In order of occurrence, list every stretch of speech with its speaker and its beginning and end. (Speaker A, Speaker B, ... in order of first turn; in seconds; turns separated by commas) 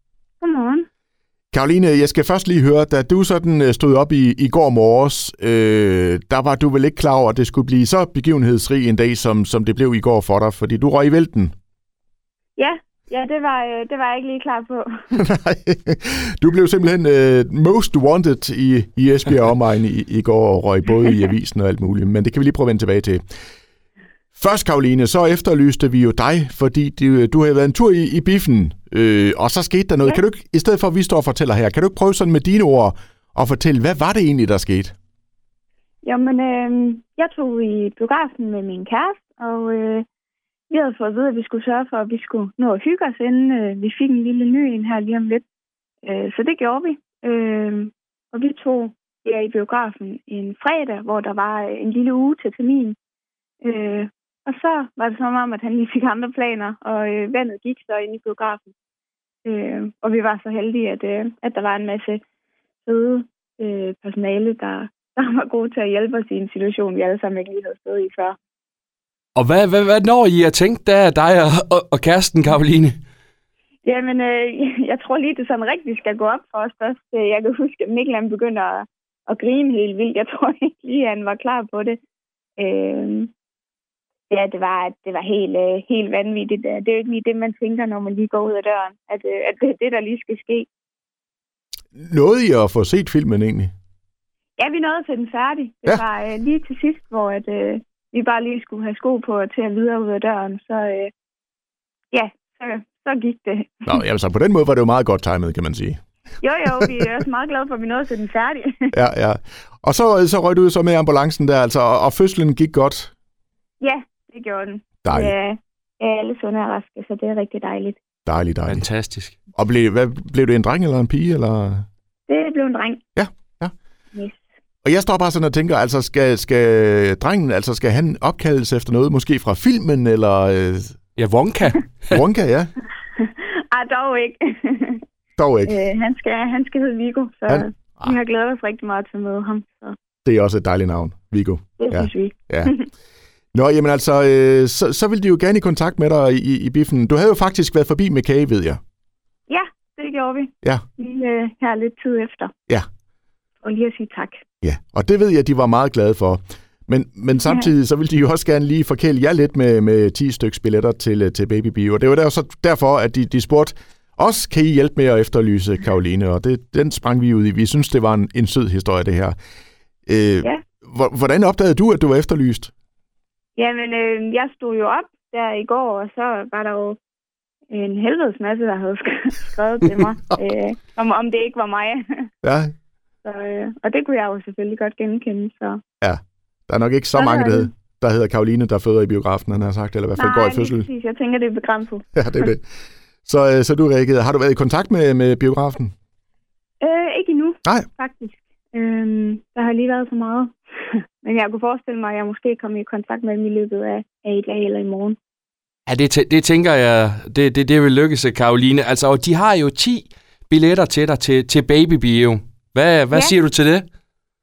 Speaker A: 0.4-0.9, Speaker B: 1.5-11.5, Speaker A: 12.6-15.2, Speaker B: 15.2-23.2, Speaker B: 24.3-34.9, Speaker A: 36.0-40.0, Speaker A: 40.7-45.4, Speaker A: 46.0-53.0, Speaker A: 53.6-58.7, Speaker A: 59.4-62.2, Speaker A: 62.9-68.4, Speaker C: 69.3-73.0, Speaker A: 73.8-82.0, Speaker A: 82.6-83.3, Speaker A: 84.3-90.7, Speaker B: 92.0-93.7, Speaker A: 94.6-101.1, Speaker A: 102.1-104.0, Speaker B: 103.8-106.0, Speaker A: 106.4-108.9, Speaker B: 108.9-113.1, Speaker A: 113.8-118.0, Speaker B: 115.0-115.3, Speaker B: 118.2-118.8, Speaker C: 118.7-119.4, Speaker B: 119.5-121.8, Speaker A: 122.3-123.0, Speaker B: 123.2-123.7, Speaker A: 124.1-124.4, Speaker B: 124.8-131.0, Speaker C: 131.2-132.2, Speaker B: 132.1-132.7, Speaker A: 133.2-135.0, Speaker B: 135.4-135.7, Speaker A: 135.7-139.9, Speaker B: 137.5-138.1, Speaker B: 140.2-142.7, Speaker A: 141.8-142.8, Speaker B: 143.5-148.8, Speaker A: 149.5-152.5, Speaker A: 153.6-154.4, Speaker B: 154.6-169.3, Speaker A: 157.4-157.7, Speaker B: 170.1-172.7, Speaker A: 173.6-177.0, Speaker A: 177.7-182.3, Speaker B: 182.4-182.7, Speaker A: 183.2-185.8, Speaker B: 186.0-190.8, Speaker A: 187.1-187.7, Speaker A: 190.2-192.5, Speaker B: 192.2-192.6, Speaker B: 193.2-195.9, Speaker A: 196.8-205.2, Speaker C: 205.8-213.9